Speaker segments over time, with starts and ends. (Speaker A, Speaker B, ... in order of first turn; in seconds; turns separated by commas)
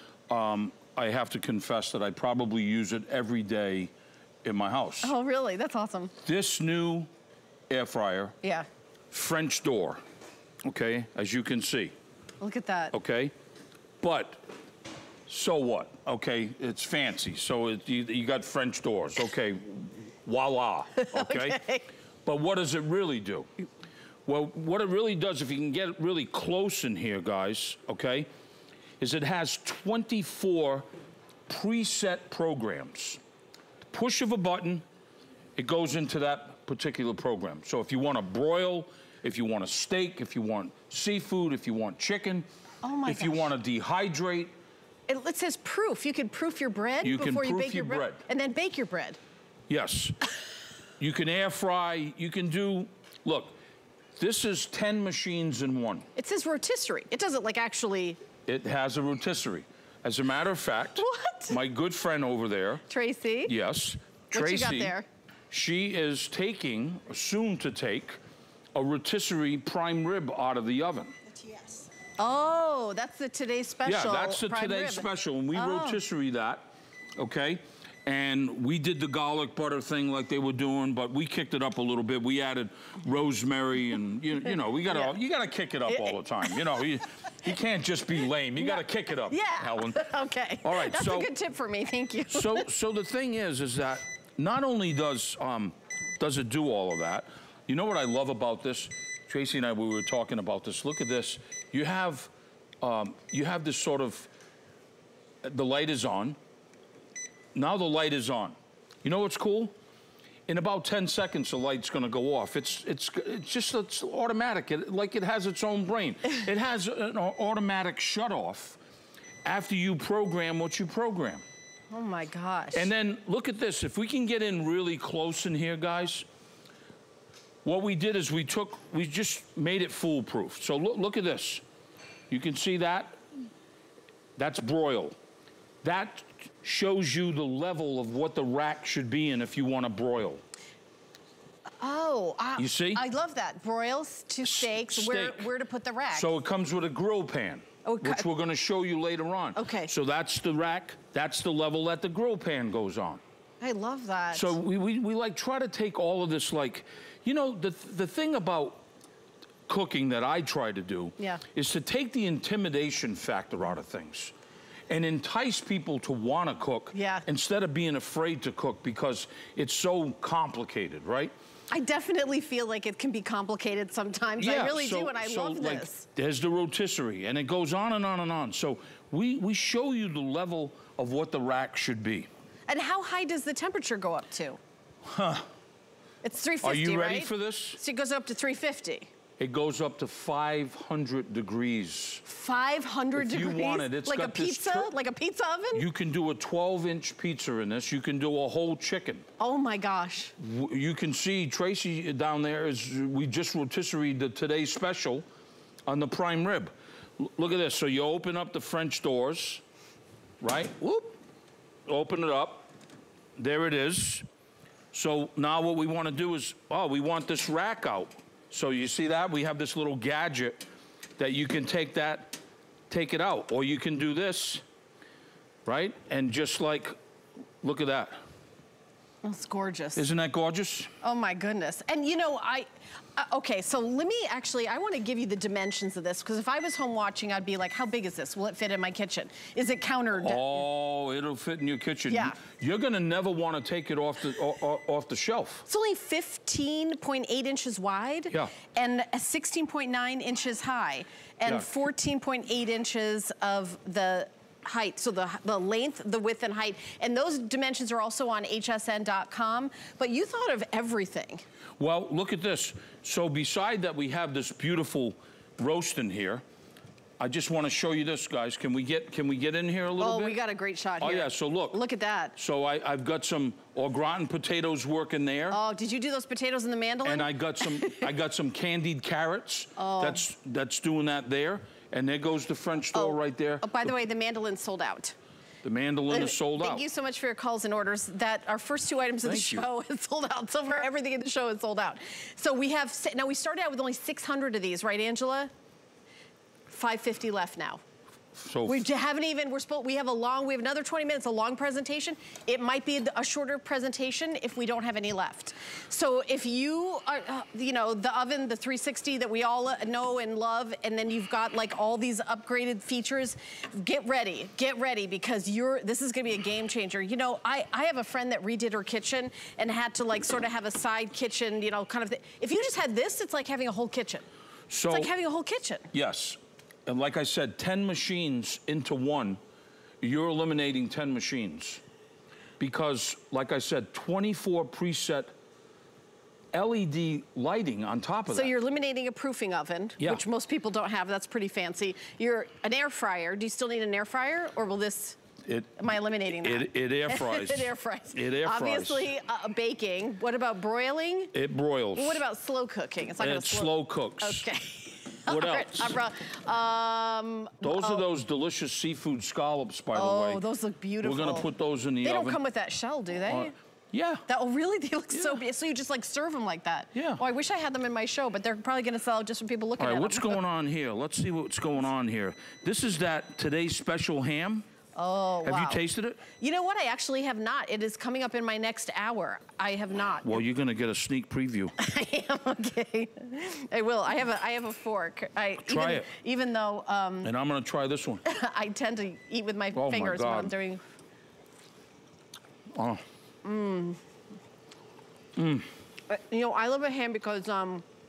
Speaker A: 0.3-3.9, Speaker A: 4.4-5.1, Speaker B: 5.0-6.1, Speaker A: 6.2-7.1, Speaker A: 7.7-8.3, Speaker A: 9.1-10.0, Speaker A: 10.6-11.9, Speaker B: 12.4-12.9, Speaker A: 12.9-13.3, Speaker A: 14.0-14.4, Speaker A: 15.3-21.6, Speaker B: 20.9-21.9, Speaker A: 22.2-23.5, Speaker A: 24.2-28.3, Speaker A: 29.0-30.9, Speaker A: 31.5-33.2, Speaker A: 33.9-34.8, Speaker A: 35.5-42.5, Speaker B: 42.8-43.5, Speaker A: 43.0-44.5, Speaker B: 45.1-49.2, Speaker A: 47.0-48.2, Speaker A: 49.7-50.2, Speaker A: 51.0-53.5, Speaker A: 54.1-56.1, Speaker B: 56.1-58.2, Speaker A: 58.5-62.8, Speaker B: 61.0-61.6, Speaker B: 62.9-63.5, Speaker A: 63.5-64.9, Speaker B: 64.3-65.1, Speaker A: 65.5-68.2, Speaker A: 68.7-71.1, Speaker B: 72.2-76.0, Speaker A: 73.8-91.3, Speaker B: 84.9-85.1, Speaker B: 85.9-86.6, Speaker B: 88.6-92.7, Speaker A: 92.3-102.3, Speaker A: 102.8-104.3, Speaker A: 105.4-106.4, Speaker A: 107.5-109.7, Speaker A: 110.5-118.8, Speaker A: 119.4-121.4, Speaker B: 121.9-122.9, Speaker A: 122.7-126.2, Speaker A: 127.6-131.6, Speaker A: 132.3-133.2, Speaker A: 134.3-135.2, Speaker A: 135.8-140.4, Speaker B: 141.8-146.3, Speaker A: 142.6-143.0, Speaker A: 144.4-145.5, Speaker A: 146.1-153.2, Speaker B: 147.8-148.2, Speaker B: 149.6-149.9, Speaker B: 153.6-154.5, Speaker A: 154.3-158.8, Speaker A: 159.7-164.3, Speaker A: 164.9-171.3, Speaker B: 166.9-167.2, Speaker B: 171.7-176.1, Speaker A: 174.4-182.3, Speaker B: 182.7-184.6, Speaker A: 185.0-185.5, Speaker B: 186.2-189.1, Speaker A: 186.6-187.8, Speaker A: 189.4-192.2, Speaker B: 192.2-195.9, Speaker A: 193.1-194.9, Speaker A: 195.7-199.3, Speaker B: 199.4-200.3, Speaker A: 200.4-205.2, Speaker A: 205.8-209.6, Speaker A: 210.4-211.2, Speaker A: 211.8-212.7, Speaker A: 213.4-214.2, Speaker A: 214.9-224.6, Speaker A: 225.7-226.9, Speaker A: 227.6-228.2, Speaker B: 229.2-230.1, Speaker A: 229.9-230.9, Speaker B: 231.0-240.6, Speaker A: 240.2-245.6, Speaker B: 242.1-242.4, Speaker B: 245.7-261.4, Speaker A: 261.8-266.4, Speaker A: 267.2-270.4, Speaker B: 270.0-272.4, Speaker A: 271.0-271.8, Speaker A: 272.4-275.6, Speaker B: 275.5-278.1, Speaker A: 277.0-283.9, Speaker B: 279.8-280.2, Speaker B: 282.9-285.1, Speaker A: 285.6-286.8, Speaker B: 286.1-295.5, Speaker A: 289.2-289.6, Speaker B: 296.7-297.8, Speaker A: 298.3-298.9, Speaker B: 298.6-324.2, Speaker A: 324.7-325.1, Speaker B: 324.9-325.9, Speaker A: 325.9-329.4, Speaker A: 330.0-331.8, Speaker A: 332.6-335.3, Speaker A: 336.5-338.5, Speaker B: 338.3-345.2, Speaker A: 345.4-345.7, Speaker B: 345.8-351.3, Speaker A: 346.4-349.1, Speaker A: 351.3-352.2, Speaker B: 351.9-358.0, Speaker A: 353.2-354.5, Speaker A: 355.3-356.0, Speaker A: 357.6-360.4, Speaker B: 359.9-361.5, Speaker A: 361.0-362.4, Speaker B: 362.0-363.5, Speaker A: 363.2-364.2, Speaker B: 364.3-370.4, Speaker A: 365.1-365.4, Speaker A: 366.9-367.2, Speaker A: 369.8-374.7, Speaker B: 374.9-375.8, Speaker A: 375.4-376.2, Speaker B: 376.3-380.4, Speaker A: 380.2-381.7, Speaker B: 381.8-387.3, Speaker A: 385.6-386.1, Speaker A: 387.2-388.2, Speaker B: 388.2-390.8, Speaker A: 389.7-390.5, Speaker A: 392.7-393.0, Speaker B: 393.4-394.0, Speaker A: 395.4-395.7, Speaker B: 396.1-397.8